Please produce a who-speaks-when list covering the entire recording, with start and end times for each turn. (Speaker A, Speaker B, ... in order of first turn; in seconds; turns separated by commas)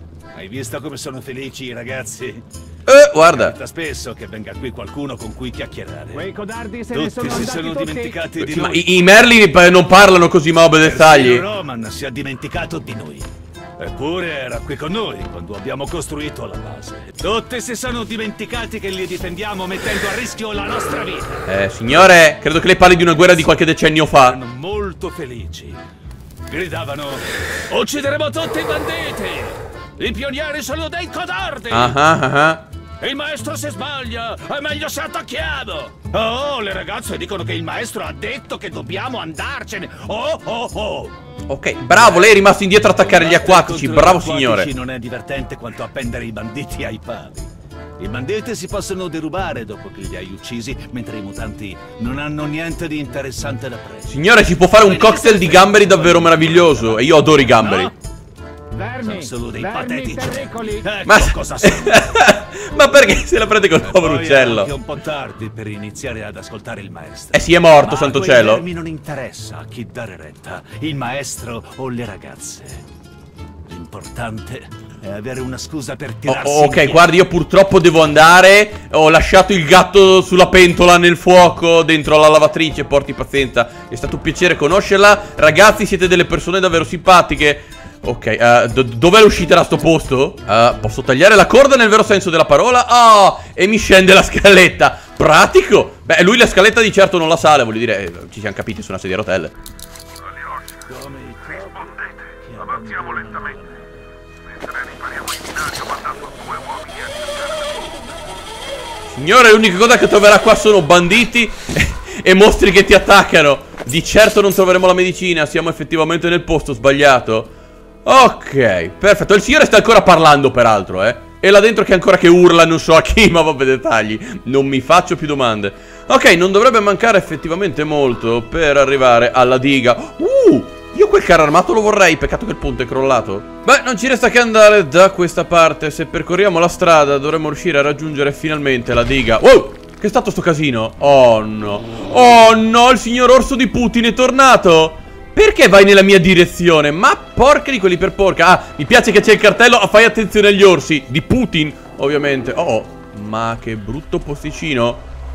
Speaker A: 0.3-2.4, Speaker B: 2.9-3.5, Speaker A: 3.2-6.3, Speaker C: 6.1-8.2, Speaker A: 6.9-8.9, Speaker B: 8.4-11.4, Speaker A: 10.8-21.4, Speaker B: 21.5-24.4, Speaker A: 24.2-25.8, Speaker A: 26.5-32.0, Speaker B: 31.7-32.6, Speaker A: 33.0-41.1, Speaker B: 41.5-44.7, Speaker A: 41.9-54.2, Speaker B: 54.1-57.9, Speaker A: 54.8-57.9, Speaker C: 58.7-60.9, Speaker A: 59.0-62.2, Speaker B: 61.0-64.7, Speaker A: 63.7-72.8, Speaker B: 67.3-68.6, Speaker A: 73.7-77.1, Speaker B: 76.2-99.5, Speaker A: 100.7-104.0, Speaker B: 105.2-106.5, Speaker B: 109.1-117.5, Speaker B: 118.0-155.0